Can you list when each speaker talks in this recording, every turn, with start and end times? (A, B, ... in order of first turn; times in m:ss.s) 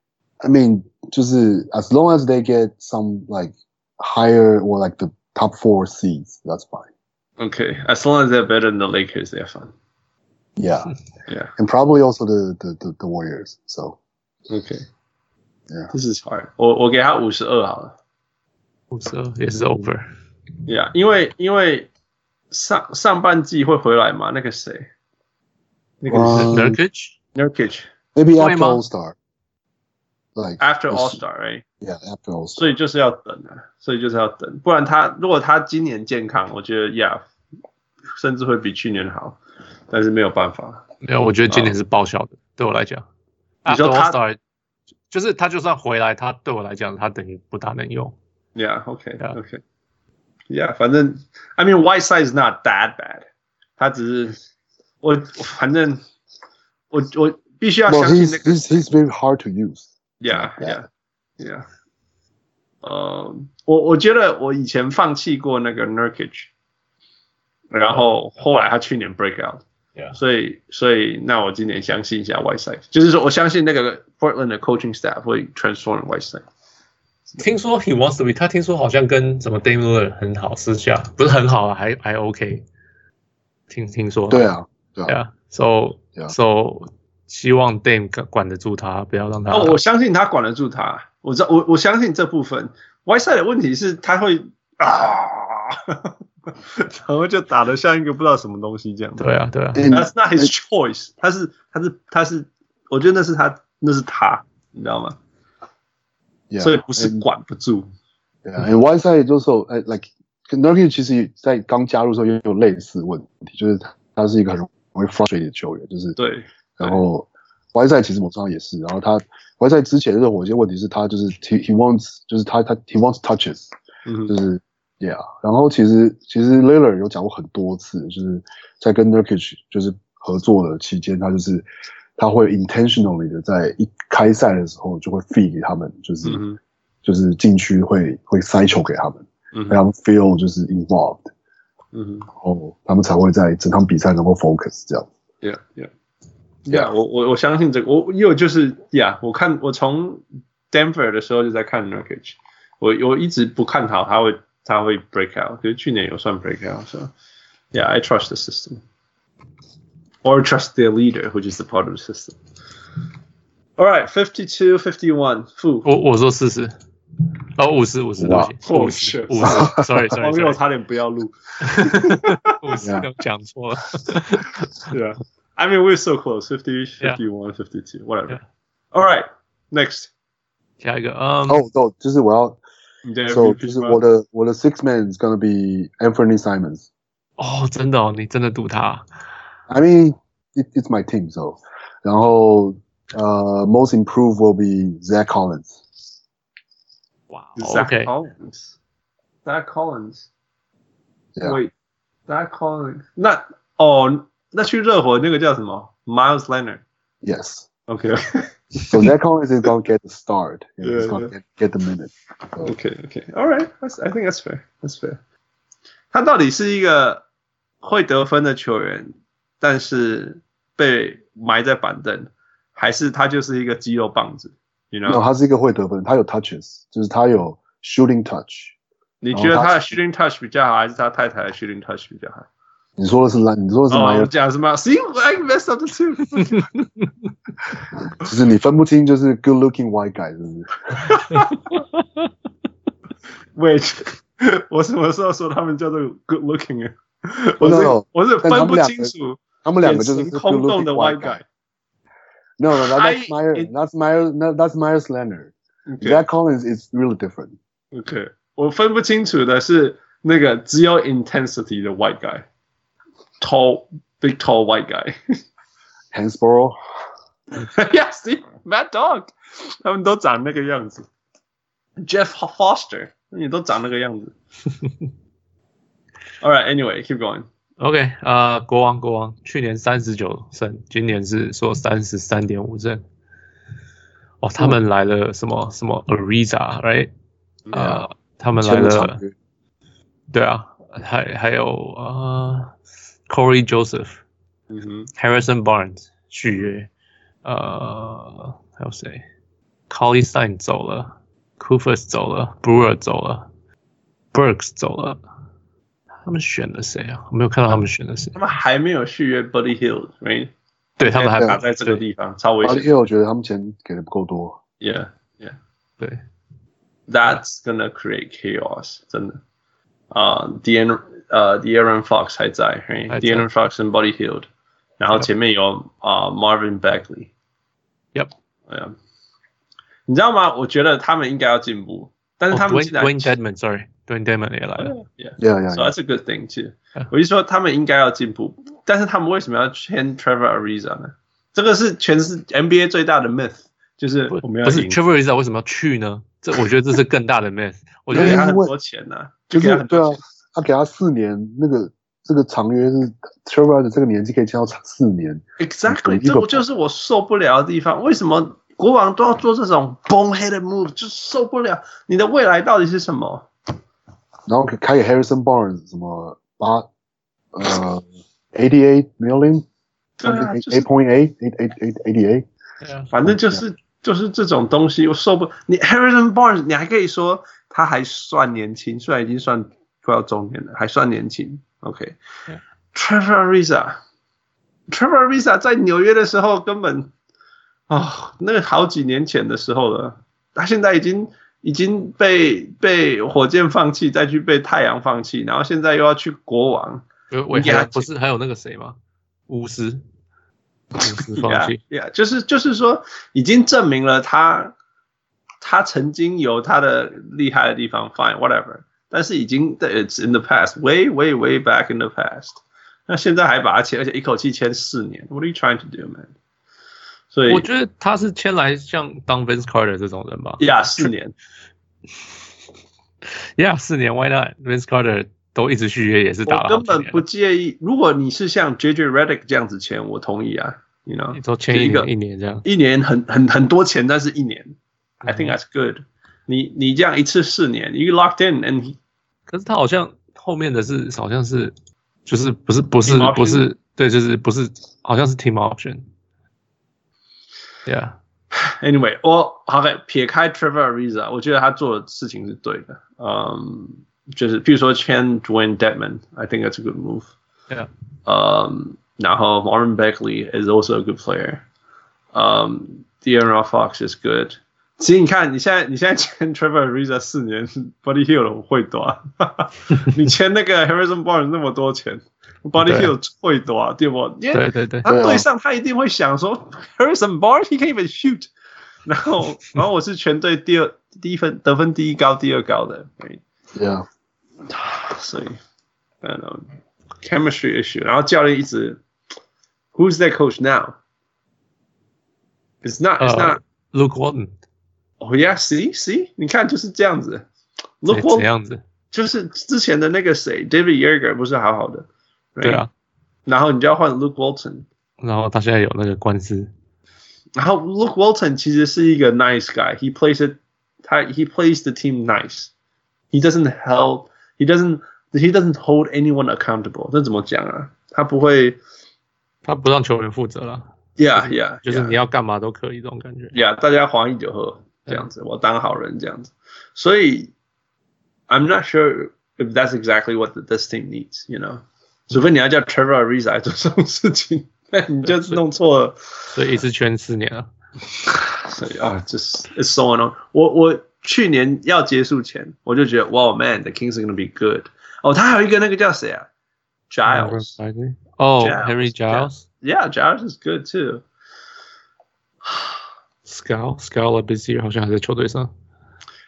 0:00.4-0:06.9 A
0:07.4-0:09.7 B
0:10.6-0:10.9 A
0:11.3-0:11.5 B
0:11.6-0:14.0 A
0:14.5-0:14.8 B
0:15.9-0:17.9 B
0:18.9-0:20.1 C
0:20.7-0:21.9 B
0:22.5-0:24.9 B
0:26.0-0:26.6 B
0:26.1-0:26.8 A
0:26.3-0:27.1 C
0:27.3-0:27.9 B
0:28.1-0:29.2 A
0:28.4-0:28.8 C
0:30.4-0:31.2 A
0:30.6-0:31.6 B
0:31.8-0:32.7 A
0:32.6-0:37.2 B
0:38.1-0:39.4 B
0:39.9-0:40.8 B
0:41.0-0:43.0 C
0:41.5-0:41.7 B
0:43.6-0:44.4 C
0:43.7-0:44.2 B
0:45.1-0:48.1 C
0:48.5-0:49.6 B
0:50.5-0:53.2 B
0:53.8-0:54.4 B
0:55.0-0:56.0 B
0:56.9-0:58.8 B
0:57.9-1:00.8 A
1:00.2-1:00.9 B
1:01.4-1:01.6 B
1:02.8-1:06.5 B
1:07.7-1:09.6 B
1:10.1-1:16.4 B
1:17.4-1:22.6 C
1:23.7-1:24.5 C
1:24.3-1:25.1 A
1:25.1-1:29.8 C
1:29.5-1:39.2 B
1:39.2-1:39.9 C
1:39.7-1:40.5 A
1:39.9-1:45.2 B
1:46.5-1:47.2 A
1:46.6-1:47.9 B
1:48.4-1:56.2 A
1:56.2-1:57.0 B
1:56.8-2:03.7 A
2:04.0-2:04.3 B
2:04.3-2:11.6 A
2:12.2-2:16.4 A
2:16.2-2:16.6 B
2:17.0-2:21.3 A
2:19.5-2:19.8 B
2:21.9-2:22.3 B
2:22.4-2:25.1 A
2:25.4-2:25.9 B
2:26.6-2:37.1 B
2:37.7-2:38.8 B
2:40.2-2:42.4 B
2:43.8-2:45.9 B
2:45.8-2:46.7 C
2:47.6-2:50.6 C
2:48.2-2:48.5 A
2:48.6-2:52.6 B
2:49.4-2:49.9 A
2:51.6-2:54.9 C
2:52.8-2:53.1 A
2:54.9-2:58.4 B
2:58.9-3:00.1 B
3:00.8-3:01.6 C
3:01.5-3:02.6 A
3:03.0-3:04.0 B
3:03.3-3:06.9 A
3:07.4-3:09.0 C
3:09.7-3:15.8 A
3:17.3-3:18.1 C
3:17.6-3:18.7 B
3:19.4-3:20.3 B
3:21.4-3:21.7 B
3:22.3-3:26.8 B
3:27.2-3:27.7 A
3:27.9-3:29.0 B
3:28.9-3:32.7 A
3:30.8-3:31.3 B
3:32.6-3:35.2 B
3:36.1-3:37.2 B
3:37.8-3:45.2 B
3:45.0-3:48.7 A
3:49.2-3:52.5 B
3:49.3-3:50.0 A
3:53.0-3:54.3 A
3:53.9-3:56.7 B
3:58.2-4:01.0 A
4:01.0-4:01.8 B
4:03.6-4:11.4 B
4:07.6-4:09.1 A
4:09.6-4:11.4 A
4:12.6-4:17.6 A
4:12.7-4:13.7 B
4:15.9-4:16.2 B
4:17.9-4:22.4 B
4:23.4-4:25.2 B
4:26.1-4:26.8 A
4:27.5-4:31.0 B
4:32.0-4:34.3 B
4:36.4-4:37.4 B
4:37.8-4:43.0 C
4:44.4-4:47.1 C
4:47.7-4:48.0 B
4:47.7-4:49.2 C
4:48.6-4:49.3 A
4:50.3-4:52.7 C
4:53.3-4:54.2 C
4:54.7-4:55.1 B
4:55.2-4:56.9 C
4:57.4-4:59.2 C
4:59.9-5:03.5 C
5:04.3-5:05.2 C
5:06.2-5:08.4 C
5:08.3-5:10.5 B
5:11.0-5:12.0 C
5:11.0-5:12.9 B
5:12.6-5:14.6 A
5:14.8-5:15.6 B
5:17.1-5:19.4 B
5:20.1-5:24.5 B
5:23.1-5:23.5 C
5:25.0-5:27.3 B
5:28.7-5:28.9 B
5:30.1-5:33.3 B
5:32.5-5:34.9 C
5:34.8-5:45.0 B
5:35.4-5:35.9 A
5:44.3-5:48.4 C
5:48.1-5:48.7 A
5:48.1-5:50.2 B
5:49.5-5:56.6 A
5:55.6-6:03.5 B
6:04.5-6:06.9 A
6:07.5-6:09.6 A
6:10.2-6:10.9 B
6:10.2-6:12.4 A
6:12.8-6:13.1 C
6:13.1-6:22.2 B
6:13.2-6:13.6 A
6:22.9-6:24.0 B
6:24.9-6:27.1 B
6:27.9-6:38.1 B
6:37.3-6:39.0 C
6:39.5-6:40.0 C
6:41.0-6:41.8 C
6:41.3-6:44.7 B
6:45.6-6:56.3 B
6:57.3-6:57.7 B
6:57.5-7:01.1 C
7:00.6-7:01.3 B
7:03.6-7:07.2 C
7:06.5-7:12.1 B
7:11.3-7:12.6 C
7:12.6-7:19.0 B
7:15.2-7:15.5 C
7:19.5-7:21.7 C
7:22.2-7:26.0 C
7:23.0-7:23.6 B
7:27.9-7:28.1 C
7:28.5-7:37.3 B
7:38.2-7:41.6 B
7:42.3-7:58.5 B
7:52.8-7:53.1 C
7:54.5-7:55.1 C
7:55.1-7:55.4 A
7:59.1-8:03.4 B
8:03.7-8:04.0 A
8:04.7-8:05.6 B
8:06.2-8:06.7 B
8:07.2-8:09.0 B
8:09.9-8:11.0 B
8:12.8-8:13.6 B
8:13.2-8:14.5 C
8:15.2-8:17.5 B
8:18.0-8:18.5 B
8:18.1-8:18.8 C
8:19.1-8:22.8 B
8:22.6-8:22.9 C
8:23.4-8:24.9 B
8:25.2-8:26.7 C
8:27.6-8:32.7 B
8:33.3-8:38.8 B
8:39.6-8:43.6 C
8:41.2-8:42.1 B
8:43.5-8:47.5 B
8:48.5-8:56.2 B
8:55.2-8:55.6 C
8:56.5-8:57.7 C
8:58.2-9:06.5 B
9:07.1-9:07.7 B
9:07.3-9:09.6 C
9:08.6-9:11.2 B
9:13.4-9:15.7 C